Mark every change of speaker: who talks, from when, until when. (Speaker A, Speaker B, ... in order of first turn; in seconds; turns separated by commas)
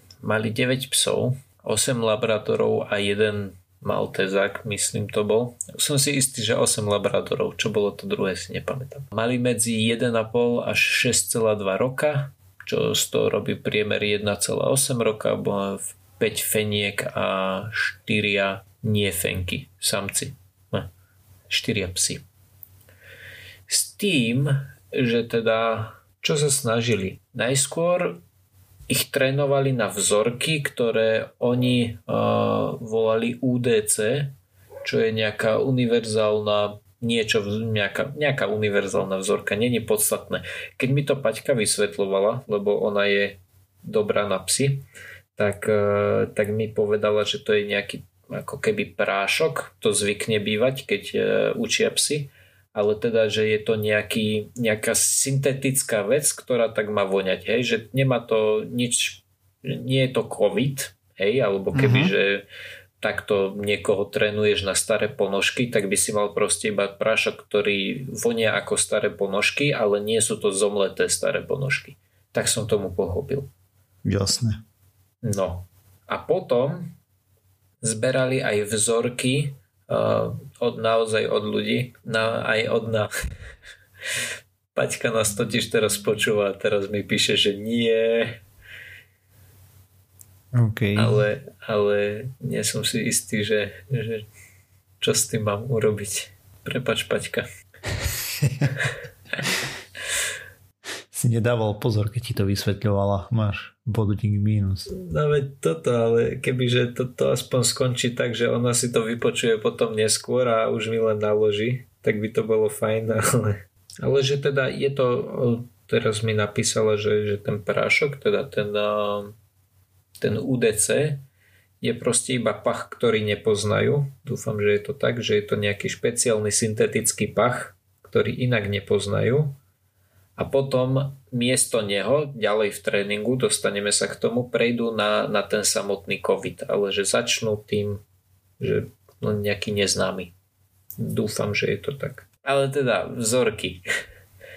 Speaker A: 0.2-20.9, Speaker A: 21.5-22.2, Speaker A: 23.7-28.2, Speaker A: 28.9-44.8, Speaker A: 45.4-62.4, Speaker B: 61.7-62.1, Speaker A: 63.0-73.5, Speaker B: 74.0-74.6, Speaker A: 75.2-76.9, Speaker A: 77.8-83.1, Speaker A: 84.7-88.4, Speaker B: 90.5-91.2, Speaker A: 90.9-94.3, Speaker A: 95.0-97.4, Speaker B: 98.4-98.7, Speaker B: 101.1-104.9, Speaker A: 104.9-119.3, Speaker A: 120.2-121.2, Speaker A: 121.8-129.6, Speaker A: 130.4-138.0, Speaker A: 138.6-140.3, Speaker A: 141.0-143.8